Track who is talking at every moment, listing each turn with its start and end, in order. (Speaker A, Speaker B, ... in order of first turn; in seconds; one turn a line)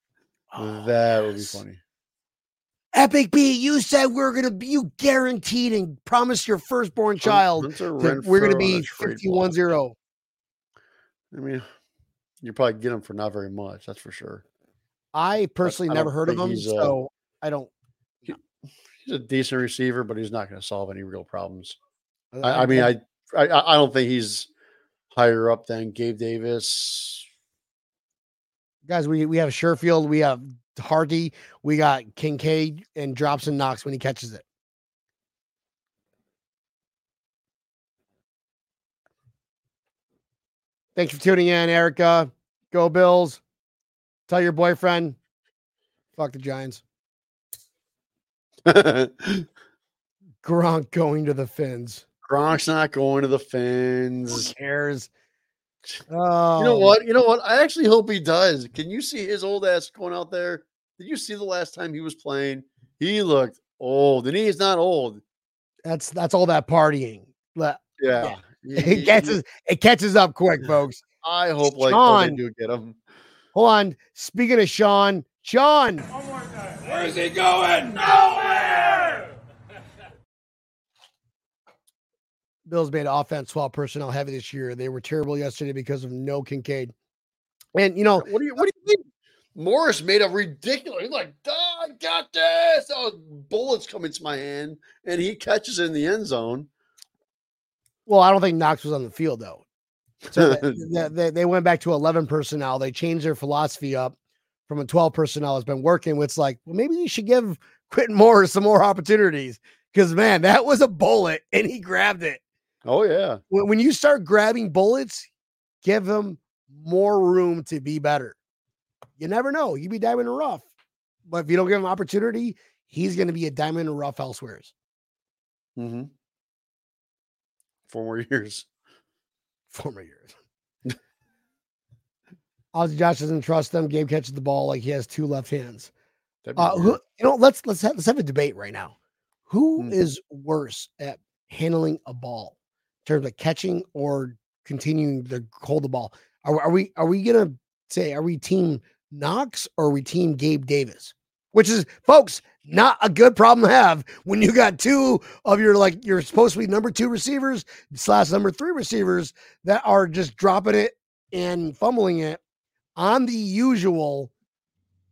Speaker A: 0.5-0.9
Speaker B: 0.6-1.8
Speaker A: 2.9-10.0
Speaker B: 7.2-9.5
Speaker B: 11.3-11.7
Speaker B: 12.4-14.4
Speaker A: 15.1-17.7
Speaker B: 15.6-16.9
Speaker B: 19.0-21.8
Speaker A: 22.3-22.9
Speaker B: 22.4-24.5
Speaker B: 25.1-27.3
Speaker A: 28.9-34.4
Speaker A: 41.0-43.4
Speaker A: 44.3-45.2
Speaker A: 46.2-46.8
Speaker B: 48.6-49.5
Speaker A: 50.4-52.0
Speaker B: 52.2-54.5
Speaker A: 54.3-55.1
Speaker A: 56.1-56.9
Speaker B: 56.6-65.2
Speaker A: 65.8-71.0
Speaker B: 68.0-69.4
Speaker B: 71.2-73.0
Speaker A: 71.6-72.4
Speaker A: 73.5-76.1
Speaker C: 76.8-79.3
Speaker A: 82.7-86.9
Speaker A: 87.8-88.3
Speaker B: 88.2-96.7
Speaker A: 98.1-99.7
Speaker A: 100.3-104.2
Speaker B: 100.3-100.8
Speaker A: 104.7-112.4
Speaker B: 112.8-113.4
Speaker A: 113.5-115.3
Speaker A: 115.8-118.4
Speaker A: 119.2-120.7
Speaker A: 121.3-124.7
Speaker B: 125.8-126.1
Speaker B: 127.9-128.7
Speaker A: 129.7-130.3
Speaker A: 132.7-135.9
Speaker B: 136.4-137.0
Speaker A: 136.6-138.9
Speaker A: 139.5-162.4
Speaker A: 163.0-164.3